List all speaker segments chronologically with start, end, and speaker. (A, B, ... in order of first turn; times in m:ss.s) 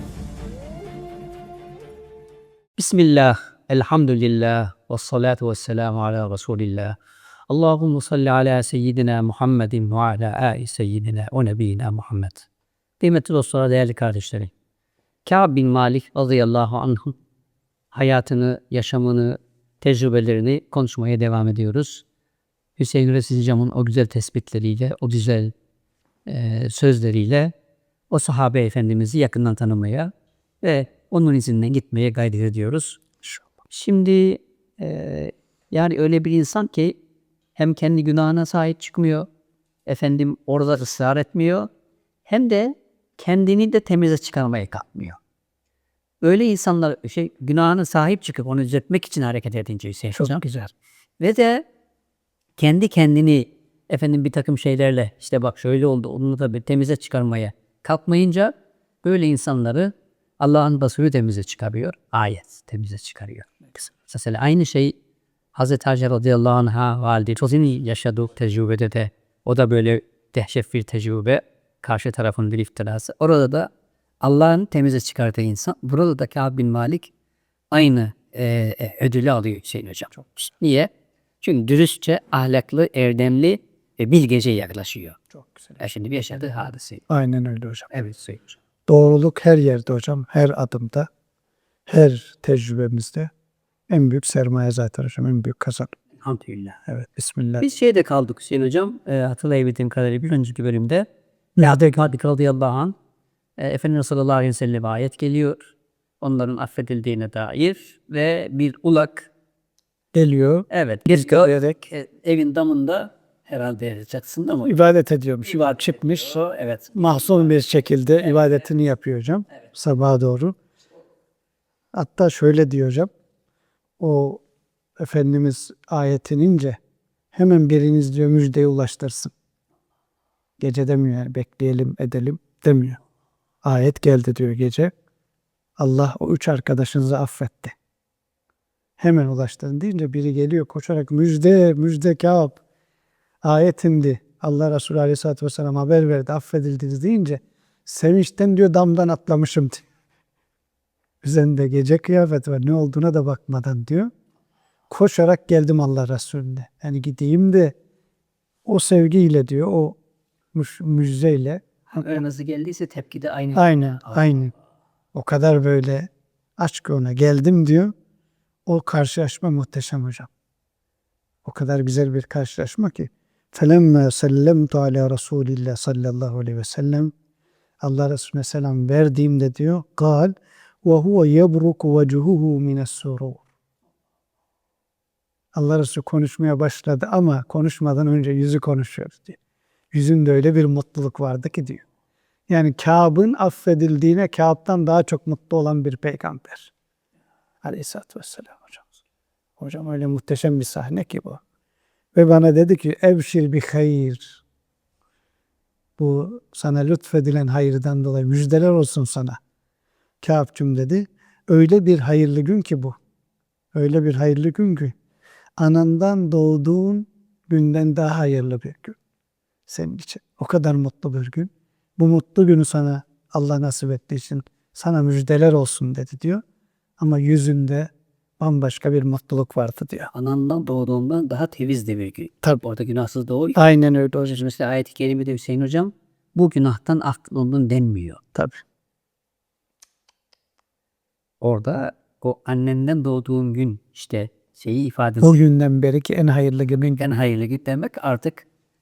0:02.8-0:07.0 A
0:07.5-0:12.4 A
0:13.0-0:14.5 A
0:15.2-0:17.2 A
0:17.9-0:22.0 A
0:22.8-0:25.5 A
0:26.2-0:27.5 A
0:28.1-0:33.0 A
0:33.7-0:37.0 A
0:37.6-0:39.3 A
0:39.8-0:41.7 A
0:42.2-0:45.2 A
0:46.2-0:50.5 A
0:50.1-0:50.7 B
0:51.2-0:51.6 A
0:52.6-1:05.0 A
1:05.5-1:13.7 A
1:14.2-1:17.1 A
1:17.7-1:20.9 A
1:20.1-1:20.5 B
1:21.4-1:25.2 A
1:25.3-1:25.8 B
1:25.8-1:27.0 A
1:27.1-1:27.9 B
1:27.9-1:28.6 A
1:28.9-1:31.1 B
1:31.9-1:33.3 B
1:33.9-1:35.9 B
1:36.2-1:36.8 A
1:36.9-1:37.7 B
1:37.6-1:41.1 A
1:41.6-1:41.8 B
1:41.6-1:43.0 A
1:43.6-1:49.3 A
1:50.1-1:51.8 B
1:50.7-1:54.7 A
1:54.6-1:56.4 B
1:55.4-1:57.6 A
1:56.9-2:00.5 B
2:01.9-2:03.1 B
2:04.0-2:04.4 B
2:05.0-2:06.8 B
2:07.3-2:09.3 B
2:10.6-2:13.0 B
2:13.6-2:14.9 B
2:15.8-2:17.7 B
2:19.0-2:22.6 B
2:23.4-2:29.8 B
2:31.2-2:34.1 B
2:34.9-2:37.7 B
2:38.6-2:40.0 B
2:40.5-2:42.2 B
2:41.9-2:44.2 A
2:43.5-2:44.5 B
2:45.1-2:47.9 B
2:48.6-2:50.3 B
2:51.4-2:57.1 B
2:57.8-3:03.4 B
3:05.5-3:09.4 B
3:09.9-3:11.8 B
3:12.5-3:16.7 B
3:17.6-3:18.9 B
3:19.6-3:21.4 B
3:22.1-3:24.4 B
3:26.0-3:29.4 B
3:30.2-3:33.0 B
3:33.7-3:34.9 B
3:35.6-3:39.0 B
3:39.7-3:46.4 B
3:47.0-3:50.1 B
3:50.1-3:53.6 A
3:53.6-3:54.4 B
3:54.2-3:58.2 A
3:58.3-3:58.6 B
4:01.4-4:05.4 A
4:05.2-4:07.1 B
4:07.0-4:08.4 A